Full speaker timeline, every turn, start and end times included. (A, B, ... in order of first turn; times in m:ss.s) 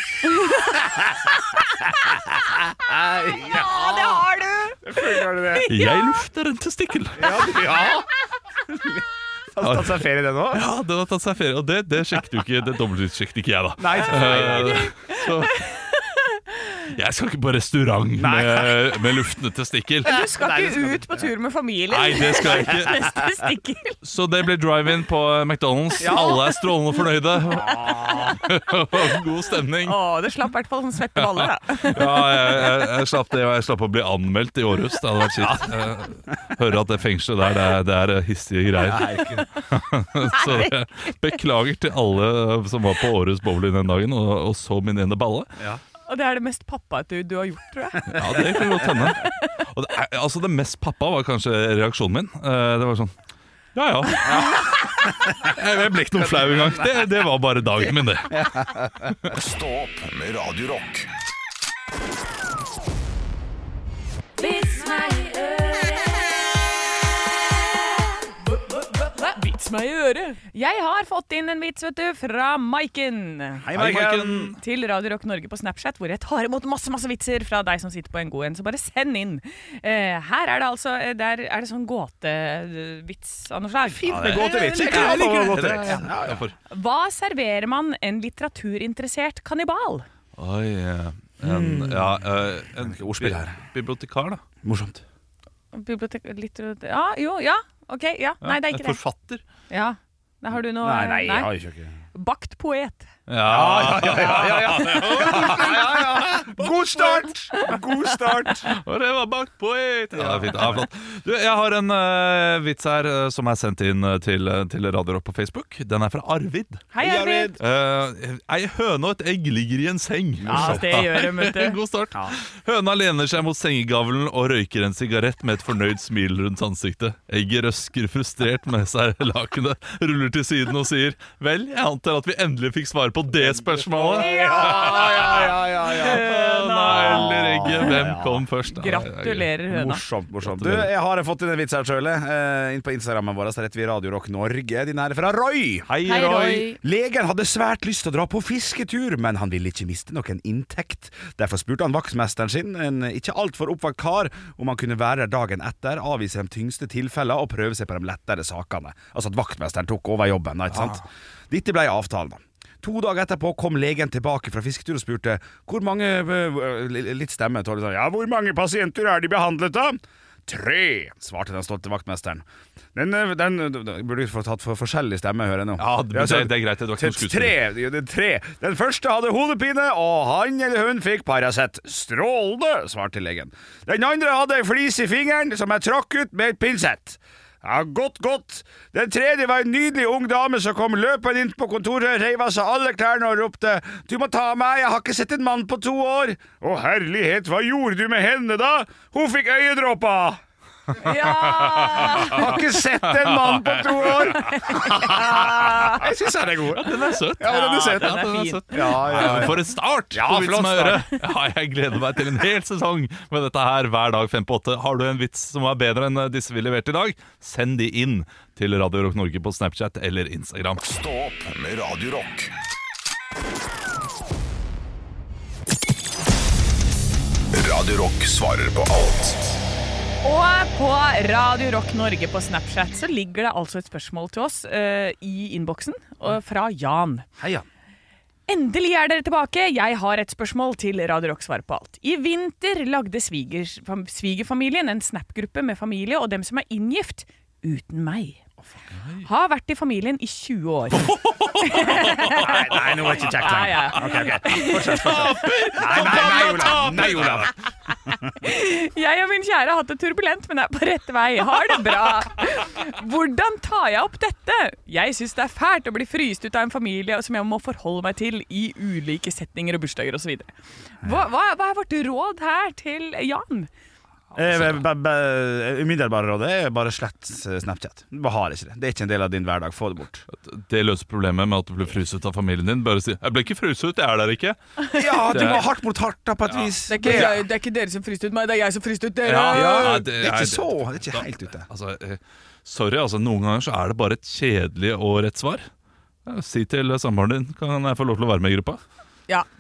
0:00.4-0:00.8 A
0:02.8-0:04.3 B
0:03.5-0:06.2 A
0:04.8-0:05.7 B
0:05.7-0:07.4 C
0:07.2-0:08.1 B
0:08.7-0:10.6 B
0:09.6-0:15.7 C
0:13.8-0:14.9 B
0:14.1-0:16.6 A
0:16.9-0:20.2 C
0:18.2-0:19.1 B
0:20.0-0:24.0 A
0:20.1-0:21.3 B
0:21.9-0:23.2 C
0:24.0-0:30.0 C
0:26.0-0:26.4 B
0:26.0-0:26.6 A
0:27.5-0:28.4 B
0:29.8-0:32.6 A
0:31.2-0:45.5 C
0:35.4-0:35.7 B
0:38.8-0:39.5 B
0:40.4-0:40.7 A
0:46.1-0:49.5 A
0:48.1-0:53.1 C
0:48.4-0:49.1 B
0:53.8-0:58.7 C
0:54.3-0:54.6 B
0:56.3-0:56.9 B
0:58.3-0:59.1 B
0:59.3-1:01.1 D
1:04.4-1:06.3 A
1:08.5-1:13.7 A
1:13.6-1:14.5 B
1:13.7-1:14.6 C
1:14.6-1:25.6 A
1:23.9-1:26.4 B
1:24.1-1:26.6 C
1:26.7-1:30.1 A
1:30.4-1:34.4 C
1:31.4-1:32.2 B
1:32.8-1:33.6 B
1:34.6-1:35.0 B
1:35.7-1:39.0 A
1:38.4-1:39.4 C
1:39.7-1:41.5 A
1:40.8-1:42.0 B
1:42.2-1:43.1 A
1:43.3-1:47.3 C
1:43.4-1:48.7 B
1:48.6-1:56.8 C
1:50.1-1:50.9 B
1:56.9-1:57.6 A
1:57.0-1:57.6 B
1:57.6-2:19.6 C
2:00.4-2:00.9 B
2:00.5-2:01.8 A
2:13.9-2:16.3 B
2:14.1-2:18.0 A
2:16.9-2:18.4 B
2:18.7-2:20.0 A
2:19.7-3:20.4 B
2:20.4-2:20.9 C
2:25.9-2:26.7 C
2:26.1-2:26.8 A
2:55.8-2:57.6 C
3:21.0-3:28.1 B
3:21.0-3:22.6 A
3:22.0-3:24.8 C
3:24.8-3:26.0 A
3:26.7-3:40.8 C
3:27.4-3:29.0 A
3:28.7-3:31.1 B
3:40.8-3:42.5 D
3:47.5-3:49.6 D
3:50.2-3:57.3 A
3:57.4-3:57.7 B
3:58.5-4:08.4 A
4:09.0-4:09.3 C
4:09.2-4:12.7 A
4:11.1-4:13.3 C
4:11.9-4:17.5 B
4:13.3-4:16.7 A
4:14.1-4:17.6 C
4:18.4-4:33.7 A
4:34.4-4:40.3 B
4:34.4-4:34.8 C
4:40.3-4:44.6 C
4:44.8-4:45.5 A
4:45.0-4:47.4 B
4:45.2-4:45.6 C
4:46.5-4:47.3 C
4:46.9-4:50.0 A
4:49.2-4:55.7 C
4:49.5-4:51.7 B
4:56.2-4:58.8 C